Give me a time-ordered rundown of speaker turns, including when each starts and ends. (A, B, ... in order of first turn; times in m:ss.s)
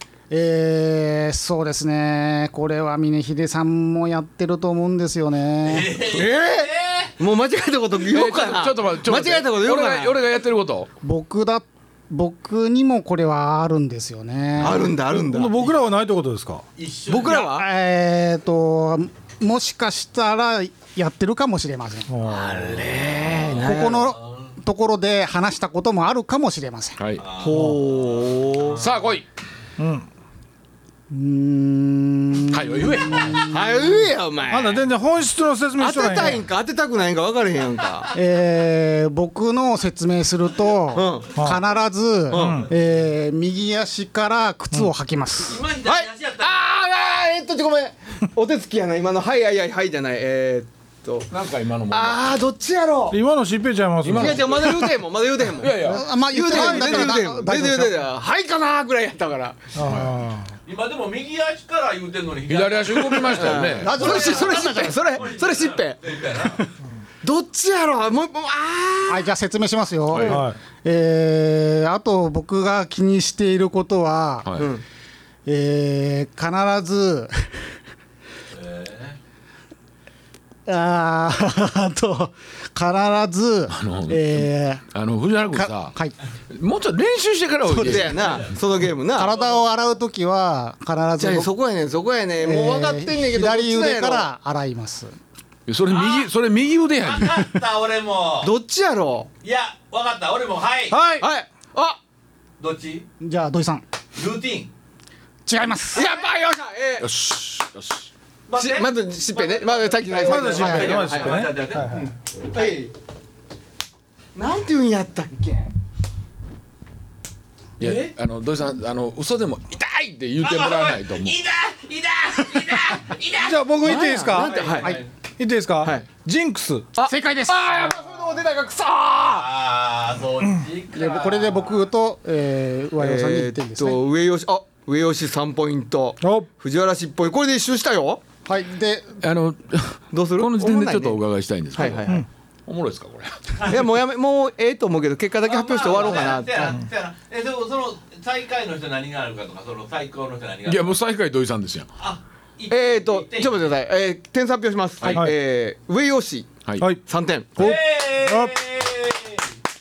0:00.3-0:06.0 A
0:05.6-0:07.1 B
0:06.0-0:10.2 C
0:08.1-0:10.9 D
0:11.0-0:14.9 A
0:14.6-0:15.7 C
0:15.1-0:16.6 E
0:16.8-0:17.5 B
0:17.1-0:17.7 C
0:17.2-0:22.1 A
0:22.1-0:22.9 E
0:22.3-0:24.5 B
0:22.5-0:24.1 C
0:23.6-0:27.0 A
0:27.0-0:27.2 D
0:27.2-0:29.0 B
0:27.4-0:28.8 C
0:28.8-0:29.3 D
0:29.8-0:30.1 E
0:31.1-0:34.1 A
0:32.5-0:33.5 D
0:33.5-0:34.8 C
0:34.5-0:36.4 E
0:35.8-0:38.1 C
0:38.1-0:45.6 A
0:40.9-0:41.3 C
0:41.4-0:41.6 E
0:42.3-0:42.7 C
0:42.3-0:42.7 E
0:45.4-0:46.6 B
0:45.8-0:51.3 C
0:51.3-0:52.4 D
0:51.9-0:53.2 C
0:53.1-0:54.9 E
0:54.0-0:54.9 D
0:54.1-0:59.7 C
0:55.6-0:56.0 D
0:55.9-0:58.0 A
0:59.7-1:00.5 E
0:59.8-1:00.1 D
1:00.6-1:06.6 B
1:02.5-1:04.0 D
1:03.2-1:06.0 C
1:03.8-1:05.0 A
1:07.2-1:09.3 C
1:09.1-1:14.5 A
1:10.1-1:10.4 D
1:10.2-1:10.6 E
1:14.4-1:14.7 D
1:14.6-1:14.8 C
1:15.4-1:17.7 A
1:18.5-1:19.2 B
1:20.6-1:24.8 A
1:23.7-1:26.0 D
1:25.5-1:26.2 A
1:26.5-1:28.4 D
1:27.7-1:29.3 C
1:28.1-1:28.5 B
1:29.1-1:31.5 A
1:29.2-1:29.6 B
1:31.2-1:34.3 C
1:32.4-1:35.1 A
1:35.7-1:37.5 D
1:35.9-1:36.3 B
1:37.0-1:38.5 B
1:38.4-1:39.3 C
1:39.4-1:41.0 B
1:40.9-1:41.3 E
1:41.2-1:42.0 C
1:42.6-1:43.0 B
1:43.2-1:43.8 A
1:44.1-1:44.7 B
1:45.4-1:46.1 A
1:45.9-1:47.1 C
1:47.0-1:48.1 D
1:48.5-1:52.7 B
1:48.5-1:52.9 C
1:50.2-1:52.1 E
1:50.5-1:51.0 A
1:54.3-1:55.7 C
1:57.8-2:01.4 D
1:57.8-1:58.1 B
2:00.4-2:05.1 B
2:03.3-2:04.8 E
2:03.8-2:05.0 C
2:05.4-2:06.9 E
2:07.0-2:09.5 C
2:07.0-2:07.9 A
2:09.3-2:11.7 B
2:10.9-2:14.0 A
2:13.0-2:18.2 C
2:16.2-2:16.5 E
2:18.4-2:19.2 A
2:19.2-2:22.1 D
2:20.1-2:21.2 C
2:21.7-2:22.2 C
2:22.7-2:23.8 D
2:23.6-2:26.8 C
2:25.4-2:30.9 B
2:30.6-2:31.9 D
2:32.0-2:33.7 B
2:32.7-2:36.5 C
2:35.1-2:35.3 E
2:37.0-2:37.7 C
2:37.6-2:38.5 E
2:37.6-2:39.5 B